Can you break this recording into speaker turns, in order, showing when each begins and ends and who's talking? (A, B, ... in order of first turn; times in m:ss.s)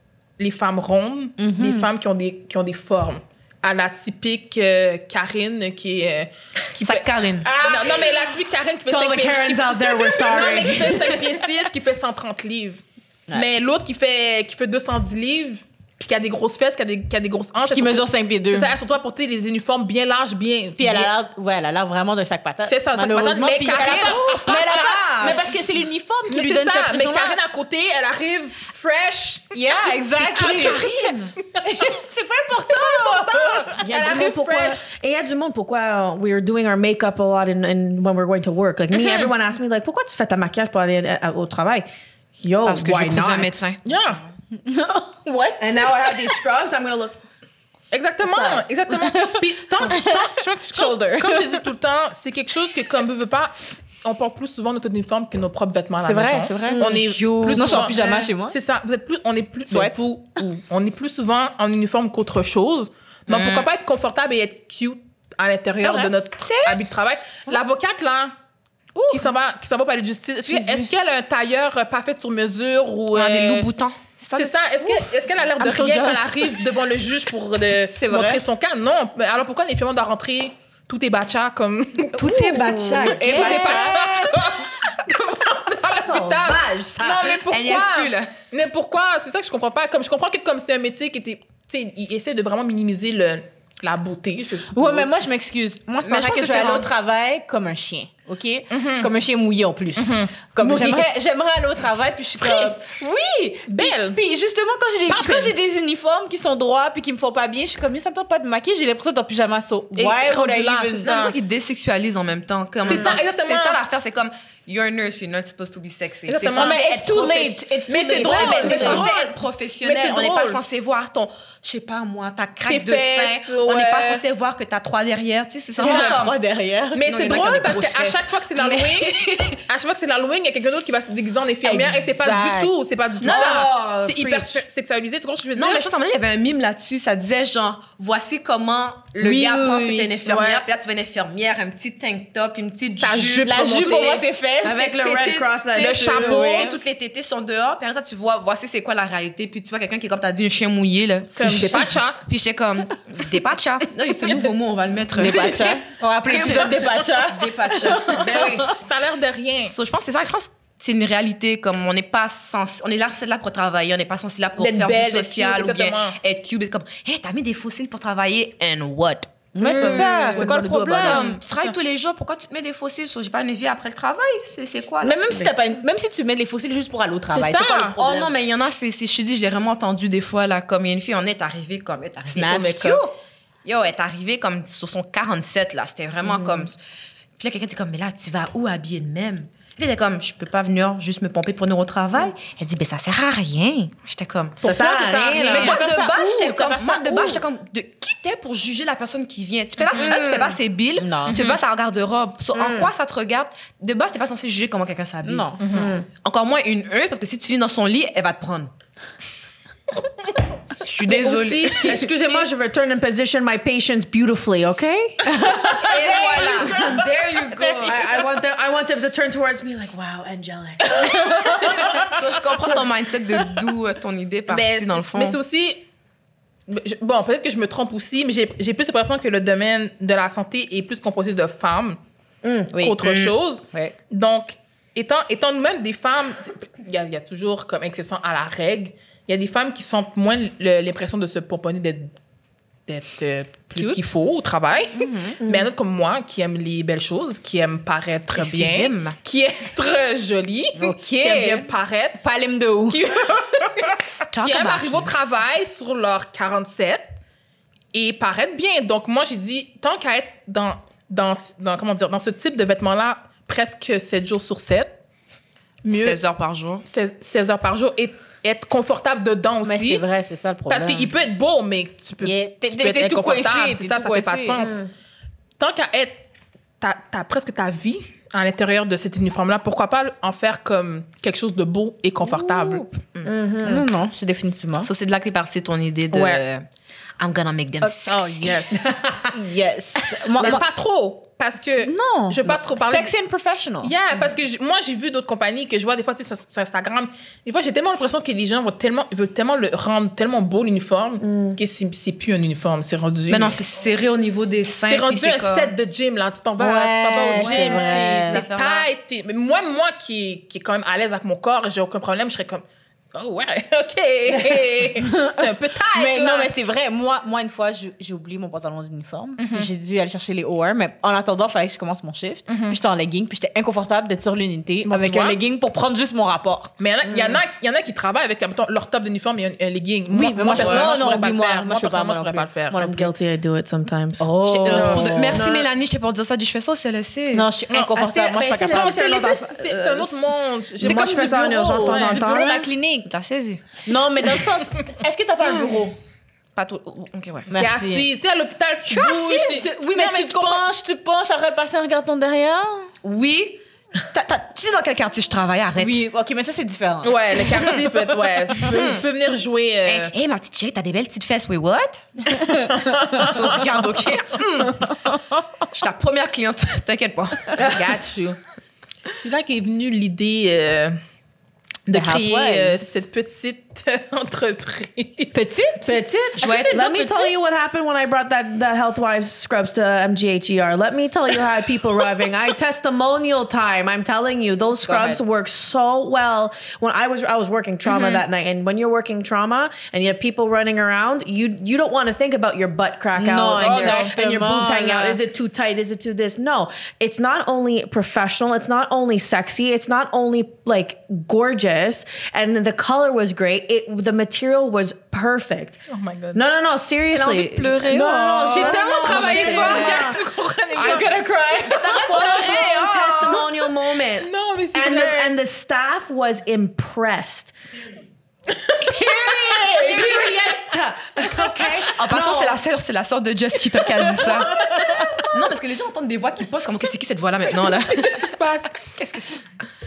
0:00.4-0:21.1 A
0:01.4-0:01.9 B
0:06.8-0:07.5 C
0:07.4-0:08.3 B
0:08.8-0:11.4 D
0:17.7-0:18.7 B
0:20.8-0:27.4 B
0:22.6-0:25.5 A
0:23.8-0:25.6 D
0:26.3-0:29.5 A
0:29.5-0:30.8 B
0:30.2-0:31.3 C
0:31.5-0:32.0 A
0:31.6-0:33.8 B
0:32.7-0:34.8 A
0:33.8-0:41.8 D
0:38.9-0:39.3 A
0:42.4-0:43.6 D
0:42.6-0:43.8 C
0:43.8-0:44.2 A
0:44.6-0:46.4 B
0:45.6-0:47.2 D
0:47.9-1:08.3 A
0:48.2-0:48.6 D
0:48.9-0:51.6 B
0:56.0-0:56.9 B
0:56.8-0:57.0 D
0:56.8-0:57.9 C
0:57.5-0:58.6 B
0:59.7-1:00.1 B
1:03.3-1:03.7 C
1:05.8-1:06.1 B
1:06.4-1:06.8 C
1:08.9-1:09.3 B
1:09.1-1:13.7 A
1:10.4-1:10.9 B
1:13.1-1:14.5 C
1:14.3-1:35.1 A
1:15.6-1:16.7 B
1:17.9-1:18.4 B
1:22.1-1:24.7 C
1:22.2-1:23.6 D
1:22.9-1:24.0 B
1:25.8-1:27.1 D
1:26.9-1:28.3 C
1:34.7-1:51.1 B
1:36.0-1:36.9 C
1:38.7-1:39.1 A
1:40.0-1:41.0 A
1:42.4-1:42.8 A
1:43.7-1:44.2 A
1:45.0-1:45.6 A
1:49.9-1:51.4 A
1:51.0-1:57.6 C
1:52.8-1:53.8 A
1:56.3-1:56.9 A
1:56.5-1:59.1 B
1:57.9-2:00.6 A
1:58.1-1:59.0 D
1:58.2-2:06.4 C
2:02.7-2:04.2 A
2:05.8-2:07.0 B
2:05.8-2:06.2 A
2:06.9-2:15.9 A
2:07.0-2:09.6 C
2:11.6-2:12.7 B
2:13.2-2:13.7 C
2:13.2-2:14.6 D
2:15.6-2:24.2 C
2:19.2-2:20.1 B
2:20.2-2:20.6 A
2:22.9-2:24.2 A
2:23.4-2:24.9 B
2:24.6-2:26.6 D
2:24.7-2:38.6 C
2:25.7-2:26.7 A
2:26.2-2:26.7 B
2:31.4-2:32.2 A
2:35.1-2:38.7 B
2:36.4-2:36.9 A
2:38.1-2:38.7 D
2:38.7-2:39.8 A
2:39.6-2:50.0 C
2:44.6-2:46.2 A
2:49.5-2:51.2 B
2:49.6-2:51.7 A
2:49.7-2:50.5 D
2:50.9-2:55.2 C
2:55.0-2:58.3 B
2:57.3-2:58.0 A
2:58.0-3:06.8 C
3:02.3-3:03.0 B
3:06.2-3:06.7 D
3:07.4-3:14.6 C
3:14.6-3:15.8 A
3:14.6-3:15.8 D
3:15.4-3:17.4 B
3:15.5-3:28.7 C
3:19.9-3:20.6 D
3:21.0-3:21.4 B
3:21.3-3:21.6 A
3:22.5-3:22.9 D
3:25.2-3:25.6 B
3:25.6-3:25.9 A
3:25.7-3:26.0 D
3:30.8-3:32.0 C
3:31.0-3:32.5 A
3:31.8-3:35.4 D
3:35.2-3:37.9 B
3:35.7-3:38.0 C
3:37.8-3:42.0 D
3:41.1-3:42.1 B
3:42.0-3:45.4 C
3:44.5-3:45.8 A
3:46.7-3:52.0 A
3:52.4-3:52.7 D
3:52.7-3:53.0 B
3:52.7-4:02.1 A
3:53.0-3:53.4 C
4:02.9-4:12.2 A
4:03.7-4:04.1 B
4:04.9-4:05.4 B
4:05.4-4:05.7 D
4:08.3-4:09.2 C
4:10.7-4:11.7 B
4:12.2-4:13.7 B
4:12.9-4:17.0 A
4:14.3-4:15.2 C
4:17.9-4:24.9 A
4:25.8-4:26.2 A
4:25.9-4:26.8 C
4:26.8-4:30.0 A
4:29.6-4:31.1 B
4:30.7-4:34.8 A
4:32.2-4:34.6 B
4:34.6-4:34.9 D
4:35.6-4:36.2 A
4:36.8-4:42.9 A
4:42.2-4:42.9 B
4:43.2-4:43.8 D
4:43.6-4:44.9 B
4:44.8-4:46.6 C
4:46.1-4:46.4 A
4:47.2-4:48.8 C
4:48.0-4:49.3 A
4:48.9-4:49.3 D
4:49.3-4:50.6 B
4:50.3-4:53.1 A
4:51.8-4:53.9 B
4:53.8-5:03.6 A
5:01.2-5:01.6 D
5:03.3-5:05.7 C
5:04.8-5:12.6 A
5:06.6-5:08.4 B
5:07.3-5:07.9 D
5:07.4-5:08.9 C
5:13.1-5:16.5 A
5:15.0-5:26.7 B
5:19.4-5:19.7 A
5:22.5-5:22.8 A
5:24.8-5:25.4 A
5:26.8-5:32.8 A
5:27.0-5:27.4 D
5:30.1-5:33.1 B
5:30.5-5:30.9 C
5:32.7-5:35.7 D
5:34.2-5:35.4 B
5:34.4-5:37.5 C
5:37.3-5:39.0 B
5:37.7-5:38.0 A
5:38.0-5:42.7 D
5:38.7-5:42.4 A
5:40.8-5:43.1 B
5:43.0-5:43.6 C
5:43.8-5:46.0 B
5:46.6-5:47.6 C
5:47.5-5:48.0 B
5:47.6-5:50.6 A
5:48.9-5:49.6 C
5:49.3-5:52.9 B
5:53.0-5:56.0 C
5:55.8-5:57.8 B
5:57.0-6:00.1 A
5:58.6-5:59.0 C
5:59.8-6:02.3 C
6:02.4-6:03.8 A
6:03.0-6:05.0 C
6:05.6-6:07.7 C
6:07.6-6:07.9 D
6:07.6-6:08.4 A
6:09.1-6:11.0 A
6:11.9-6:15.4 A
6:11.9-6:13.0 B
6:15.3-6:17.3 B
6:15.8-6:45.8 D
6:16.4-6:17.0 C
6:24.8-6:25.2 B
6:27.8-6:28.2 A
6:33.1-6:35.2 B
6:33.6-6:34.2 A
6:45.9-6:46.4 A
6:46.3-6:50.2 D
6:47.1-6:50.0 C
6:48.5-6:51.2 A
6:49.1-6:50.1 B
6:50.7-6:52.2 B
6:50.8-6:51.1 D
6:51.6-6:53.5 C
6:51.6-6:57.5 D
6:52.1-6:52.6 A
6:54.2-6:55.4 A
6:58.5-7:00.4 A
6:58.8-7:00.3 B
6:59.7-7:02.6 D
7:01.9-7:09.4 C
7:04.1-7:05.2 D
7:07.7-7:08.8 A